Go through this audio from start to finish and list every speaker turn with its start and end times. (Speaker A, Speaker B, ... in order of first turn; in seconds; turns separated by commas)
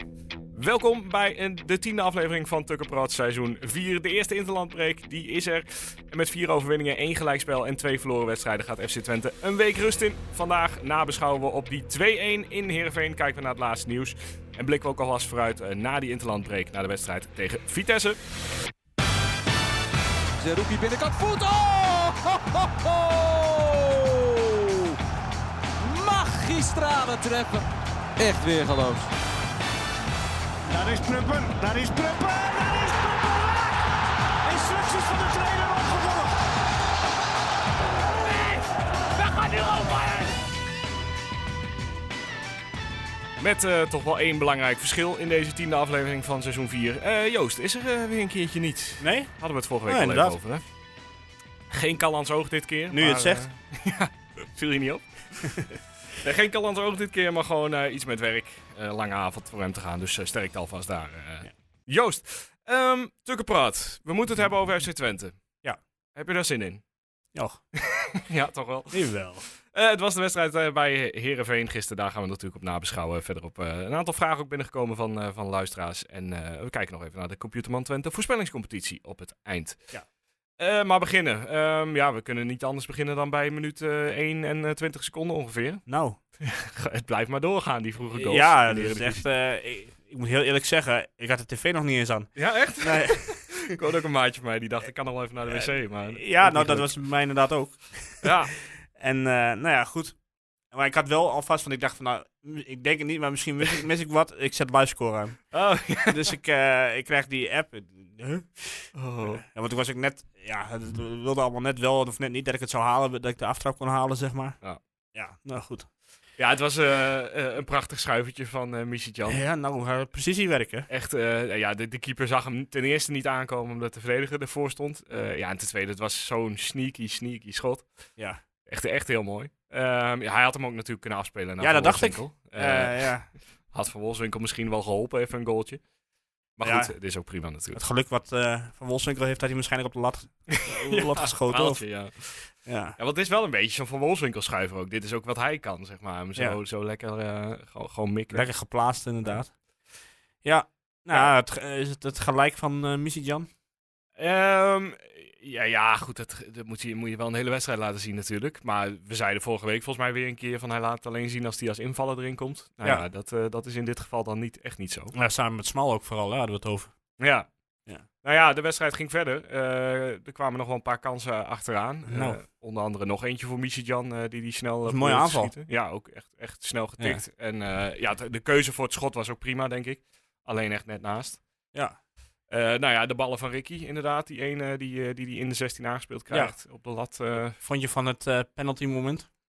Speaker A: 0.5-18.2, Speaker B: 20.4-25.0, Speaker B: 25.8-27.7, Speaker B: 28.2-29.1, Speaker C: 30.7-33.8, Speaker C: 34.5-36.3, Speaker B: 39.1-40.4, Speaker A: 43.4-50.6, Speaker D: 49.0-50.4, Speaker A: 51.7-65.4, Speaker D: 52.9-53.4, Speaker A: 66.2-66.8, Speaker D: 67.3-67.6, Speaker A: 67.8-79.9, Speaker D: 68.9-69.5, Speaker A: 80.6-85.8, Speaker D: 85.9-86.2, Speaker A: 86.4-89.2, Speaker D: 88.1-93.7, Speaker A: 92.4-96.9, Speaker D: 95.5-100.2, Speaker A: 98.2-98.5, Speaker D: 100.7-105.4, Speaker A: 105.5-106.3, Speaker D: 106.1-114.6, Speaker A: 109.0-109.4, Speaker D: 115.1-115.9, Speaker A: 116.4-119.4, Speaker D: 119.3-120.9, Speaker A: 120.9-127.9, Speaker A: 128.7-133.2, Speaker D: 131.6-133.3, Speaker A: 133.7-135.8, Speaker A: 136.6-137.8, Speaker D: 136.6-136.9, Speaker D: 137.7-141.8, Speaker A: 140.5-148.5, Speaker D: 142.5-143.0, Speaker D: 148.3-149.5, Speaker D: 150.4-153.5, Speaker A: 154.2-165.1, Speaker D: 165.1-166.9, Speaker A: 167.2-167.5, Speaker A: 168.2-181.4, Speaker D: 172.1-172.4, Speaker D: 174.9-175.5, Speaker A: 182.5-187.6, Speaker D: 186.3-186.6, Speaker D: 187.4-189.3